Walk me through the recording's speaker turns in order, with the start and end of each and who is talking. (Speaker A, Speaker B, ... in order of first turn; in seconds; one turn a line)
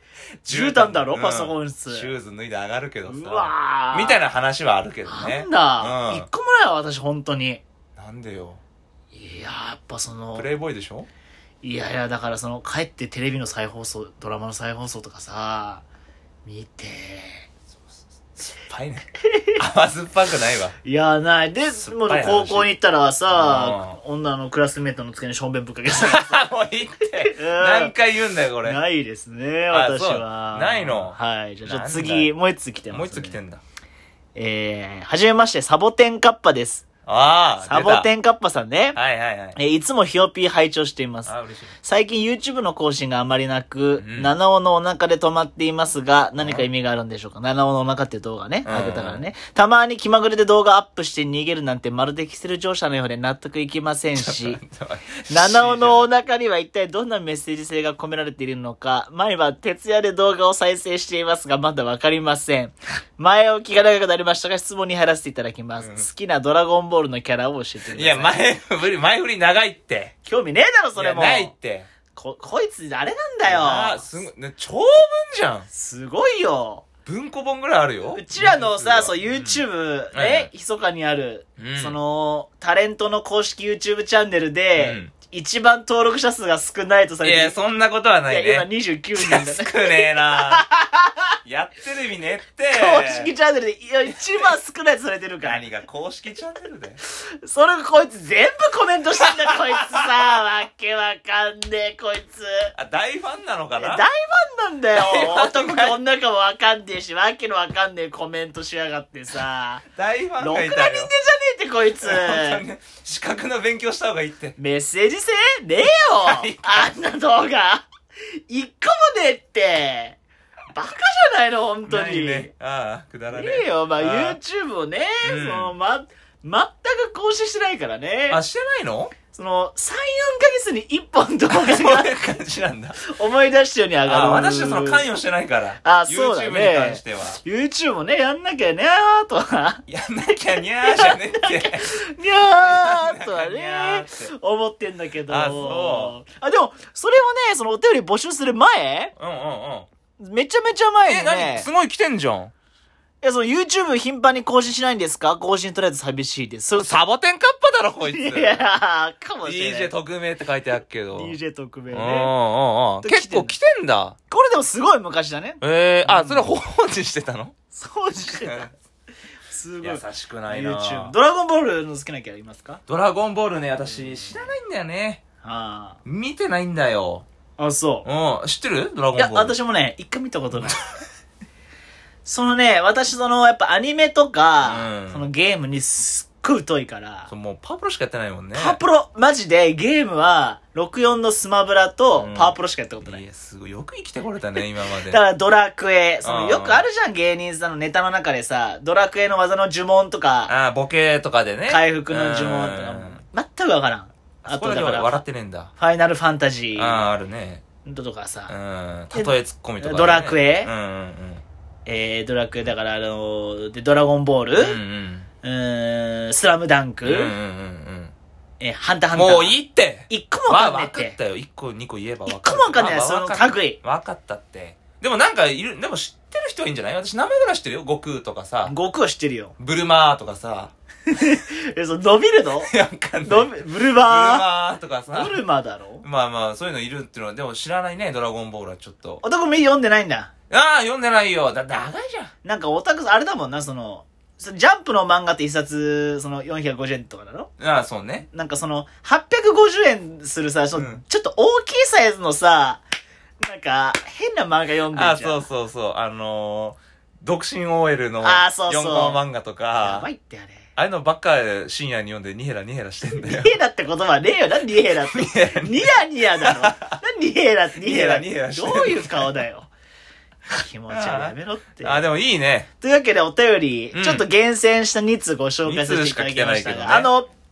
Speaker A: 0.4-6.3
Speaker B: 0.5-2.1
Speaker B: 3.1-4.2
Speaker B: 5.0-7.6
Speaker A: 8.0-8.6
Speaker B: 9.1-10.5
Speaker A: 10.3-11.1
Speaker B: 11.6-15.8
Speaker B: 16.4-17.4
Speaker A: 17.7-20.8
Speaker B: 19.2-19.6
Speaker B: 20.8-26.4
Speaker A: 21.8-22.7
Speaker A: 23.3-24.0
Speaker A: 25.9-28.8
Speaker B: 27.2-27.9
Speaker B: 28.6-33.4
Speaker A: 29.7-32.3
Speaker A: 32.9-33.6
Speaker B: 34.3-36.9
Speaker A: 37.0-38.1
Speaker B: 37.6-39.0
Speaker A: 38.9-39.6
Speaker B: 39.5-54.6
Speaker A: 41.2-41.8
Speaker A: 44.0-44.3
Speaker A: 46.4-46.6
Speaker A: 48.6-49.3
Speaker A: 54.1-56.1
Speaker B: 55.3-68.4
Speaker A: 65.8-66.1
Speaker A: 67.9-70.1
Speaker B: 70.2-71.5
Speaker A: 70.9-71.9
Speaker B: 72.1-74.2
Speaker A: 73.5-75.7
Speaker B: 75.7-76.9
Speaker A: 77.0-80.5
Speaker B: 78.1-87.6
Speaker A: 81.6-82.0
Speaker A: 84.8-85.1
Speaker A: 87.2-90.7
Speaker B: 88.3-91.3
Speaker A: 91.4-93.3
Speaker B: 92.7-95.6
Speaker A: 94.1-94.5
Speaker A: 95.4-97.0
Speaker B: 97.4-102.7
Speaker A: 102.7-104.0
Speaker B: 103.8-109.8
Speaker A: 104.9-106.0
Speaker A: 109.9-111.1
Speaker B: 110.4-112.6
Speaker A: 112.0-114.5
Speaker B: 114.6-117.8
Speaker A: 116.2-116.9
Speaker B: 118.5-120.2
Speaker B: 120.7-122.5
Speaker A: 121.9-124.4
Speaker B: 123.3-128.4
Speaker A: 125.2-125.7
Speaker A: 128.3-129.1
Speaker B: 129.3-132.3
Speaker A: 131.5-133.0
Speaker B: 133.0-135.0
Speaker A: 134.1-137.4
Speaker B: 135.8-139.8
Speaker A: 139.9-144.3
Speaker B: 140.8-149.1
Speaker A: 145.3-146.2
Speaker A: 149.2-149.9
Speaker B: 150.2-151.7
Speaker A: 151.1-152.5
Speaker B: 153.2-157.0
Speaker A: 156.8-158.7
Speaker B: 158.1-159.9
Speaker A: 159.4-161.4
Speaker B: 161.1-162.3
Speaker A: 161.9-164.2
Speaker B: 163.0-163.6
Speaker B: 164.3-166.5
Speaker A: 165.6-167.5
Speaker B: 167.7-168.7
Speaker A: 168.4-168.7
Speaker B: 169.5-172.8
Speaker A: 169.8-171.1
Speaker A: 172.9-175.2
Speaker B: 173.8-174.5
Speaker B: 175.4-176.0
Speaker A: 176.0-177.2
Speaker B: 177.6-178.1
Speaker A: 178.0-179.5
Speaker B: 179.2-180.8
Speaker A: 180.5-180.8
Speaker B: 182.2-187.3
Speaker A: 184.6-185.2
Speaker A: 187.3-188.8
Speaker B: 188.5-193.2
Speaker A: 192.2-195.2
Speaker B: 195.1-200.5
Speaker A: 196.2-196.9
Speaker A: 200.5-203.2
Speaker B: 201.7-205.2
Speaker A: 204.4-205.7
Speaker B: 205.8-207.0
Speaker A: 206.7-207.6
Speaker B: 207.8-208.5
Speaker A: 208.5-211.4
Speaker B: 209.1-210.7
Speaker B: 211.8-214.8
Speaker A: 214.6-215.3
Speaker B: 215.4-217.3
Speaker A: 217.0-218.1
Speaker B: 218.6-219.6
Speaker A: 219.1-228.7
Speaker B: 220.1-221.2
Speaker B: 222.2-223.8
Speaker B: 228.6-229.5
Speaker A: 229.6-230.7
Speaker B: 231.1-232.7
Speaker A: 232.6-235.4
Speaker B: 233.2-234.5
Speaker B: 235.1-236.0
Speaker A: 236.0-239.2
Speaker B: 239.2-240.3
Speaker A: 240.5-242.3
Speaker B: 242.4-247.5
Speaker A: 247.6-248.2
Speaker B: 248.3-252.8
Speaker A: 250.7-251.0
Speaker B: 253.4-255.4
Speaker A: 254.9-260.1
Speaker B: 258.2-259.2
Speaker B: 259.8-260.6
Speaker A: 260.8-263.6
Speaker B: 263.1-269.7
Speaker A: 265.0-267.0
Speaker A: 267.8-269.4
Speaker B: 270.5-272.0
Speaker A: 270.9-272.7
Speaker B: 272.8-277.3
Speaker A: 273.9-274.2
Speaker A: 275.6-277.1